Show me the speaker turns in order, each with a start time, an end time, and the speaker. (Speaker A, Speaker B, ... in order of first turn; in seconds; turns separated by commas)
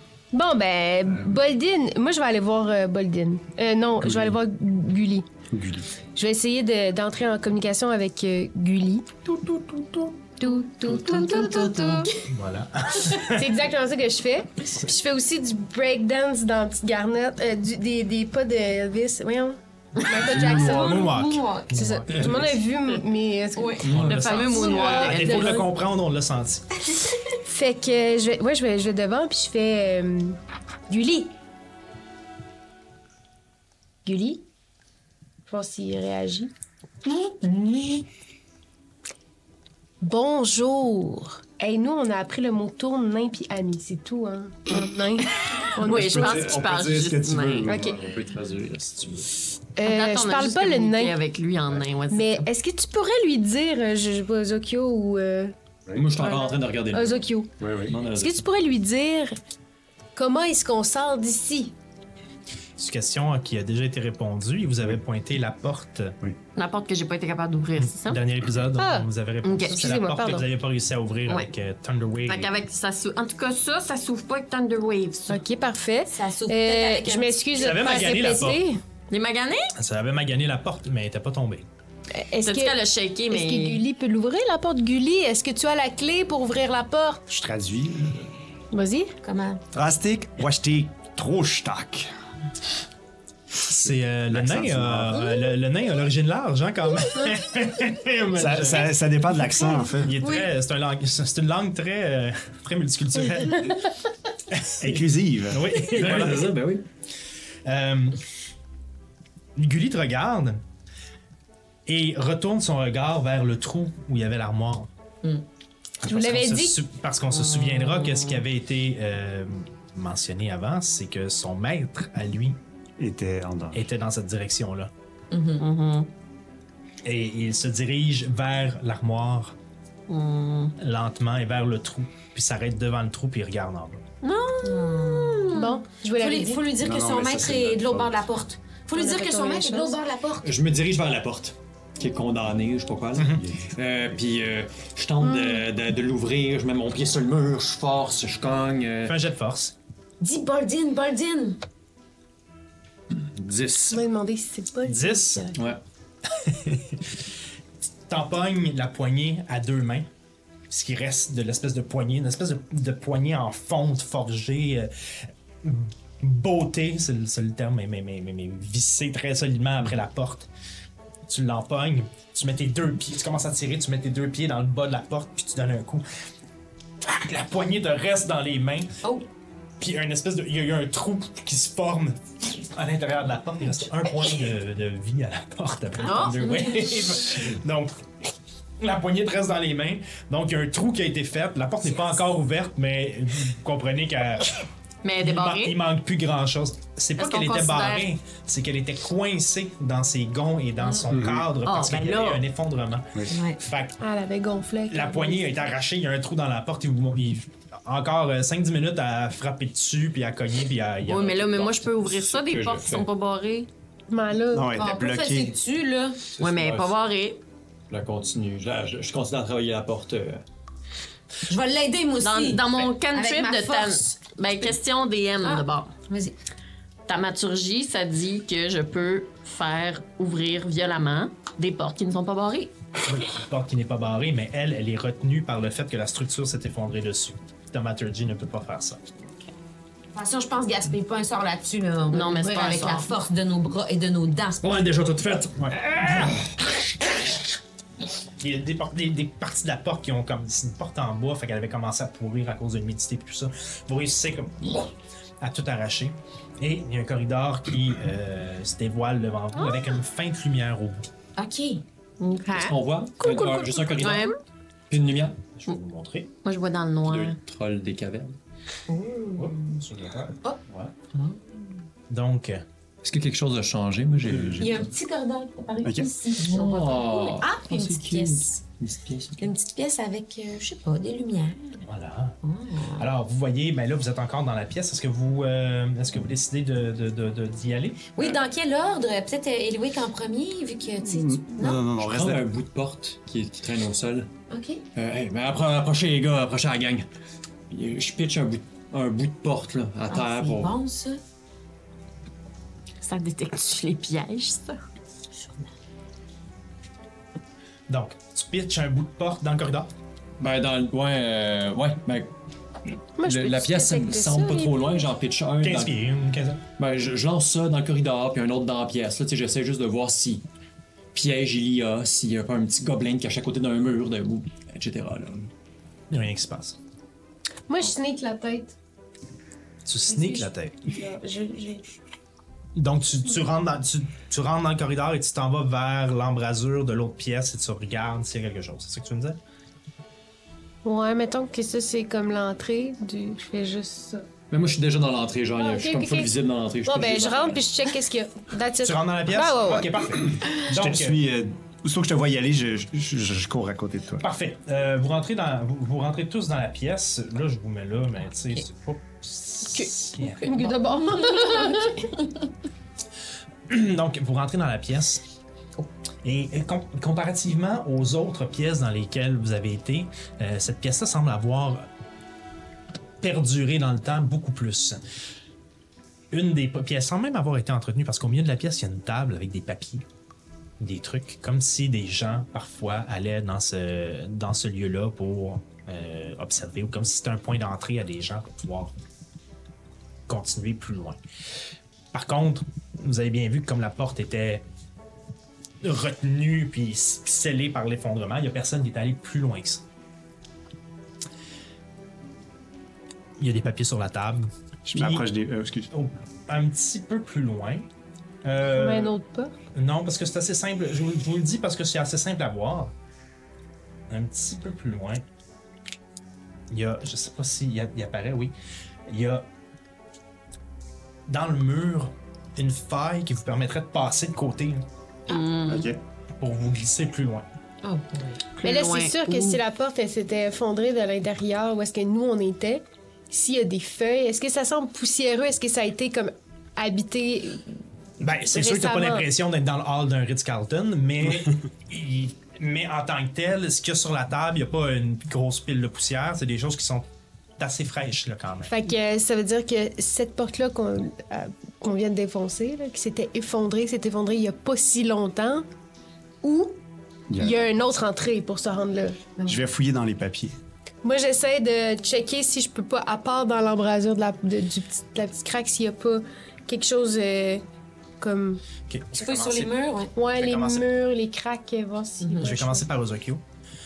Speaker A: 0.3-5.2, Speaker B: 4.0-4.3, Speaker B: 5.5-5.9, Speaker A: 6.1-9.1, Speaker C: 9.3-10.1, Speaker A: 10.4-12.1, Speaker D: 11.0-12.1, Speaker C: 12.2-13.5, Speaker A: 13.2-21.2, Speaker D: 20.1-21.8, Speaker C: 20.2-22.6, Speaker A: 21.7-25.7, Speaker E: 22.1-22.4, Speaker D: 23.6-24.8, Speaker E: 23.8-24.4, Speaker F: 23.9-25.6, Speaker C: 24.7-26.6, Speaker A: 27.4-30.4, Speaker A: 30.9-31.3, Speaker A: 34.0-34.5, Speaker A: 35.5-36.5, Speaker D: 37.1-38.0, Speaker A: 40.0-46.5, Speaker F: 45.5-47.7, Speaker B: 45.9-48.0, Speaker E: 46.1-49.3, Speaker A: 47.7-48.0, Speaker A: 49.8-51.2, Speaker F: 49.8-52.5, Speaker A: 52.1-55.5, Speaker E: 55.9-57.3, Speaker A: 56.2-57.5, Speaker B: 57.6-57.9, Speaker E: 57.9-58.4, Speaker A: 58.0-59.3, Speaker A: 60.1-61.7, Speaker C: 62.8-66.2, Speaker F: 66.5-68.2, Speaker C: 67.8-72.5, Speaker A: 68.8-69.1, Speaker F: 69.4-69.8, Speaker A: 69.7-70.5, Speaker F: 72.3-75.4, Speaker A: 75.3-78.8, Speaker D: 76.1-78.1, Speaker C: 77.5-78.6, Speaker F: 79.1-79.7, Speaker C: 79.8-81.6, Speaker A: 82.1-82.8, Speaker F: 82.4-83.8, Speaker A: 83.3-87.2, Speaker B: 87.3-88.3, Speaker A: 88.7-89.1, Speaker D: 89.2-89.6, Speaker B: 89.7-92.1, Speaker C: 93.6-99.0, Speaker B: 93.7-95.2, Speaker B: 98.3-100.2, Speaker C: 100.0-103.8, Speaker C: 104.5-106.5, Speaker B: 104.8-105.7, Speaker E: 105.8-106.8, Speaker C: 107.6-108.2, Speaker C: 109.5-110.6, Speaker C: 111.8-114.9, Speaker C: 116.0-122.6, Speaker A: 116.0-116.8, Speaker F: 117.4-118.4, Speaker B: 123.0-123.8, Speaker C: 123.7-124.9, Speaker D: 125.3-125.6, Speaker F: 125.6-126.1, Speaker C: 127.0-129.6, Speaker F: 130.1-130.8, Speaker C: 130.8-134.0, Speaker F: 134.2-135.7, Speaker D: 134.6-135.6, Speaker A: 135.5-136.7, Speaker D: 136.2-140.5, Speaker B: 136.8-138.2, Speaker A: 138.9-140.0, Speaker E: 140.4-149.1, Speaker C: 143.2-143.4, Speaker B: 143.3-143.7, Speaker A: 145.2-145.6, Speaker C: 149.1-149.8, Speaker D: 150.2-151.6, Speaker E: 153.1-154.0, Speaker A: 153.9-155.5, Speaker C: 154.8-155.5, Speaker E: 155.5-155.8, Speaker C: 156.4-157.2, Speaker C: 158.1-160.1, Speaker C: 160.7-164.9, Speaker C: 165.6-170.5, Speaker C: 171.3-176.0, Speaker C: 177.0-178.9, Speaker C: 179.8-188.1, Speaker F: 186.0-187.1, Speaker C: 188.8-194.6, Speaker F: 195.0-195.8, Speaker C: 195.2-204.0, Speaker F: 197.2-198.1, Speaker B: 201.1-201.5, Speaker F: 201.6-202.4, Speaker D: 203.3-203.6, Speaker A: 204.0-205.5, Speaker C: 204.9-211.9, Speaker F: 211.0-213.7, Speaker E: 212.0-213.1, Speaker A: 214.1-214.7, Speaker B: 214.5-215.6, Speaker D: 214.7-216.2, Speaker E: 216.3-216.9, Speaker F: 216.4-217.4, Speaker E: 217.9-220.4, Speaker D: 221.5-224.6, Speaker F: 222.2-225.9, Speaker D: 225.4-226.3, Speaker F: 227.1-232.7, Speaker C: 233.1-239.0, Speaker D: 240.1-244.8, Speaker F: 242.1-243.1, Speaker E: 244.6-246.6, Speaker C: 245.6-246.3, Speaker C: 248.4-261.0, Speaker D: 261.4-261.8, Speaker F: 262.2-262.8, Speaker E: 262.5-264.3, Speaker A: 263.2-264.3, Speaker F: 264.0-264.3, Speaker E: 264.9-265.4, Speaker C: 265.5-266.3, Speaker F: 266.4-267.4, Speaker E: 267.0-268.4, Speaker D: 268.9-269.6, Speaker C: 269.4-270.9, Speaker D: 271.1-271.6, Speaker C: 272.1-272.6, Speaker E: 273.0-274.9, Speaker D: 274.6-278.6, Speaker B: 275.8-276.1, Speaker E: 276.4-279.5, Speaker D: 279.4-281.8, Speaker C: 281.8-282.4, Speaker D: 282.4-283.1, Speaker C: 283.0-288.2, Speaker D: 288.1-291.8, Speaker B: 291.0-292.5, Speaker E: 291.9-294.3, Speaker D: 294.5-294.8, Speaker E: 294.9-297.1, Speaker E: 297.7-300.8, Speaker D: 300.1-301.2, Speaker F: 303.0-304.8, Speaker D: 305.3-305.7, Speaker C: 307.9-309.9, Speaker E: 310.4-312.3, Speaker A: 313.2-314.8, Speaker E: 313.2-316.0, Speaker C: 315.6-316.6, Speaker E: 316.8-320.4, Speaker E: 321.1-325.5, Speaker C: 326.1-326.8, Speaker A: 327.7-328.8, Speaker C: 329.8-330.8, Speaker A: 330.1-331.9, Speaker C: 332.8-339.4, Speaker A: 340.8-344.3, Speaker E: 344.5-347.6, Speaker A: 345.5-346.3, Speaker A: 346.8-350.1, Speaker C: 348.8-351.2, Speaker B: 350.5-354.2, Speaker C: 354.2-360.7, Speaker A: 359.8-362.1, Speaker D: 361.1-361.9, Speaker C: 363.7-365.2, Speaker C: 366.2-371.9, Speaker C: 373.2-375.0, Speaker C: 376.3-380.0, Speaker C: 380.8-388.9, Speaker C: 390.3-391.2, Speaker C: 392.1-394.6, Speaker C: 395.8-399.8, Speaker C: 403.4-405.3, Speaker B: 404.9-405.9, Speaker C: 405.9-407.9, Speaker C: 408.4-409.1, Speaker A: 408.7-409.5, Speaker C: 409.7-412.9, Speaker C: 414.1-415.2, Speaker C: 416.7-418.5, Speaker C: 419.1-419.5, Speaker C: 421.3-424.8, Speaker F: 425.3-425.9, Speaker B: 425.6-426.0, Speaker C: 426.4-427.5, Speaker D: 427.8-428.4, Speaker F: 428.6-429.6, Speaker A: 428.6-437.8, Speaker C: 438.2-447.1, Speaker A: 438.5-439.2, Speaker C: 447.6-448.7, Speaker A: 448.7-455.6, Speaker A: 456.4-456.8, Speaker B: 457.3-457.6, Speaker A: 457.4-459.2, Speaker B: 459.4-460.6, Speaker A: 461.0-467.6, Speaker A: 468.2-468.6, Speaker C: 468.9-470.9, Speaker D: 469.1-470.1, Speaker A: 470.1-472.8, Speaker D: 472.2-472.5, Speaker C: 472.4-473.4